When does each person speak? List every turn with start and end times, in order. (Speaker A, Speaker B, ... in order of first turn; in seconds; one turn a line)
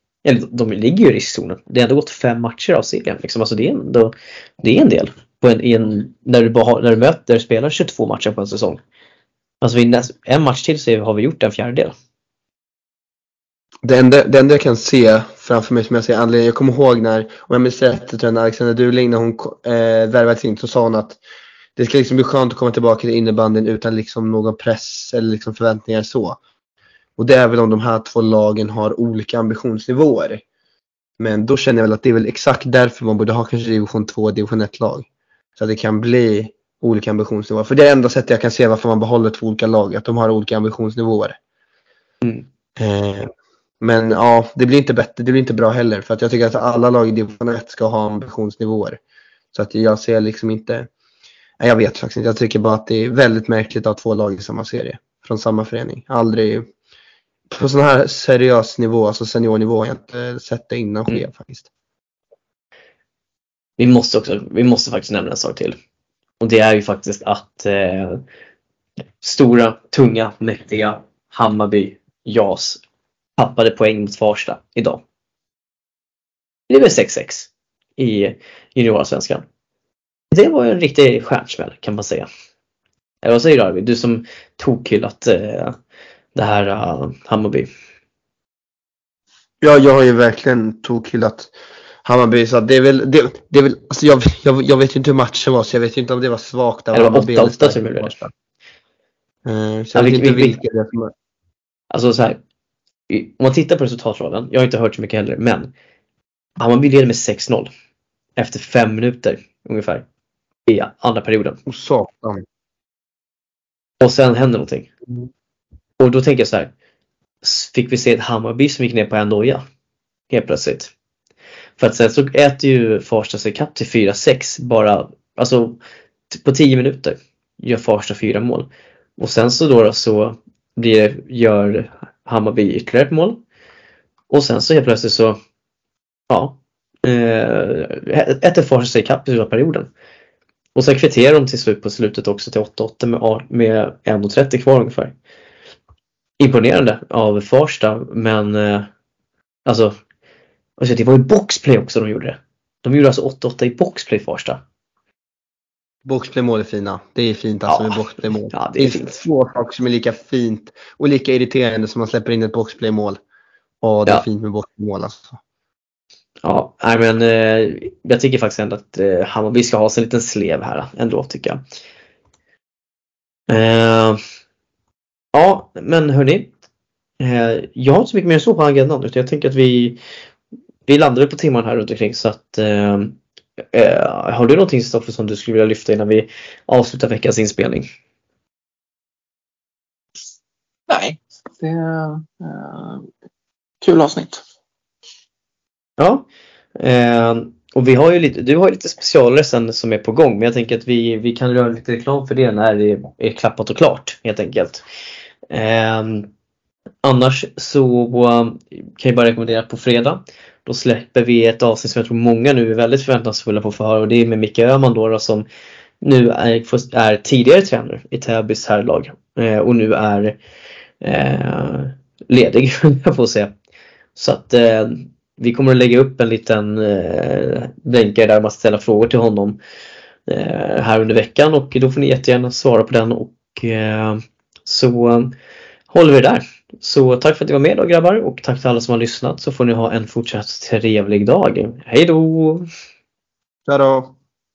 Speaker A: 0.2-8.8
Speaker A: 9.6-11.9
Speaker B: 13.8-21.2
Speaker B: 21.8-26.4
Speaker B: 27.2-30.4
Speaker B: 31.2-41.4
Speaker B: 42.8-49.0
Speaker B: 49.5-50.9
Speaker B: 51.6-56.7
Speaker B: 57.5-61.7
Speaker A: 63.8-65.8
Speaker A: 66.4-68.2
Speaker A: 69.2-72.8
Speaker A: 73.4-75.0
Speaker A: 76.7-79.4
Speaker A: 80.3-82.3
Speaker A: 83.2-85.8
Speaker A: 86.3-87.7
Speaker B: 89.6-91.5
Speaker B: 92.0-98.3
Speaker A: 96.9-98.2
Speaker B: 99.4-101.1
Speaker A: 99.9-100.6
Speaker A: 101.9-102.4
Speaker A: 103.1-105.7
Speaker A: 106.6-107.7
Speaker A: 108.4-110.0
Speaker A: 110.7-111.6
Speaker B: 111.7-112.4
Speaker A: 114.0-114.9
Speaker A: 116.0-116.7
Speaker A: 117.4-119.6
Speaker A: 120.3-120.9
Speaker A: 121.8-125.8
Speaker A: 126.3-133.4
Speaker A: 134.3-135.4
Speaker A: 136.3-139.9
Speaker A: 140.7-145.1
Speaker A: 146.4-148.9
Speaker A: 149.7-149.9
Speaker A: 150.8-154.6
Speaker B: 156.0-163.2
Speaker A: 157.7-158.0
Speaker A: 158.5-159.2
Speaker B: 163.8-165.4
Speaker A: 166.4-171.6
Speaker A: 173.5-174.2
Speaker A: 175.3-176.5
Speaker A: 177.2-180.0
Speaker A: 180.9-183.2
Speaker A: 183.7-187.8
Speaker C: 190.9-193.1
Speaker C: 193.8-194.4
Speaker A: 196.0-196.2
Speaker A: 196.8-204.8
Speaker A: 205.5-206.3
Speaker A: 207.0-215.4
Speaker A: 216.0-220.4
Speaker A: 221.0-223.5
Speaker A: 224.2-229.6
Speaker A: 230.3-235.3
Speaker A: 235.9-242.7
Speaker B: 243.7-244.1